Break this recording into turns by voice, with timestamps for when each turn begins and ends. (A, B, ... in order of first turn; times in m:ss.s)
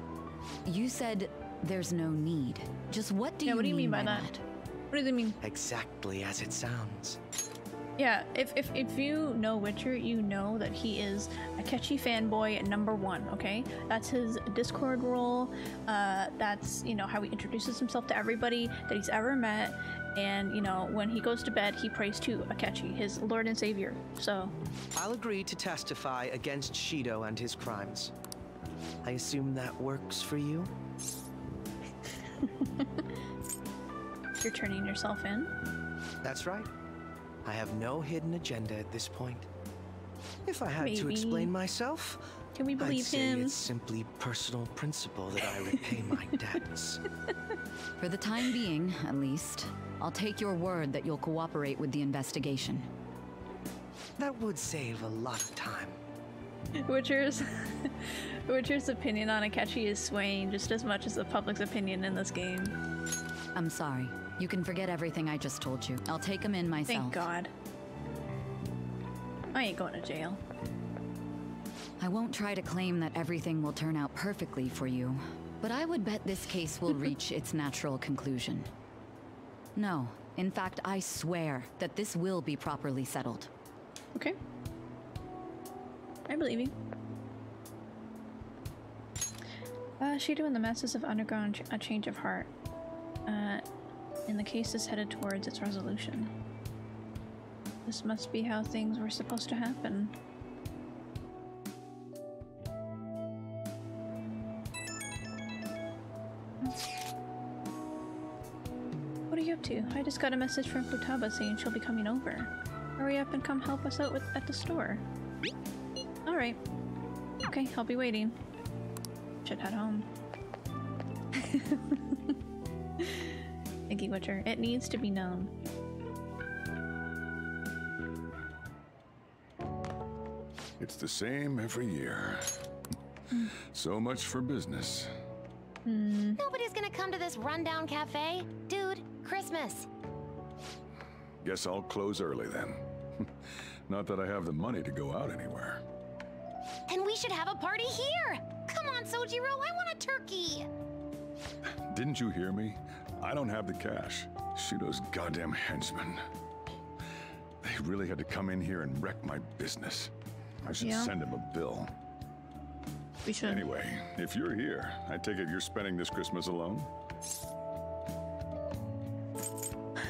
0:00.7-0:04.4 A
0:03.4-0:04.3 B
0:04.9-0:05.4 B
0:05.4-0:07.2 C
0:08.0-0:24.5 B
0:25.0-0:28.1 C
0:29.0-0:30.7 C
0:34.4-0:35.5 B
0:36.2-0:36.7 C
0:37.4-0:39.5 C
0:40.5-0:42.2 C
0:40.8-0:41.5 B
0:42.6-0:43.6 B
0:42.8-0:47.0 C
0:48.0-0:52.9 A
0:54.2-0:56.0 C
0:56.8-1:02.8 B
1:03.6-1:07.3 A
1:06.9-1:07.5 B
1:09.5-1:10.4 B
1:12.0-1:18.7 A
1:19.8-1:23.5 A
1:26.3-1:26.7 B
1:30.0-1:32.5 B
1:33.3-1:33.7 B
1:34.3-1:36.3 B
1:37.9-1:40.1 B
1:49.3-1:55.0 B
1:56.3-1:56.6 B
1:57.5-1:58.4 B
1:59.4-2:00.1 B
2:01.4-2:02.3 B
2:03.0-2:03.3 B
2:03.9-2:05.5 B
2:10.8-2:12.6 D
2:13.7-2:15.1 D
2:15.9-2:16.4 B
2:16.4-2:19.9 E
2:21.4-2:22.8 D
2:23.9-2:25.8 D
2:26.9-2:30.7 E
2:31.9-2:36.2 D
2:37.6-2:40.1 D
2:40.6-2:41.9 D
2:40.8-2:41.1 B
2:43.3-2:43.7 B
2:43.3-2:46.9 D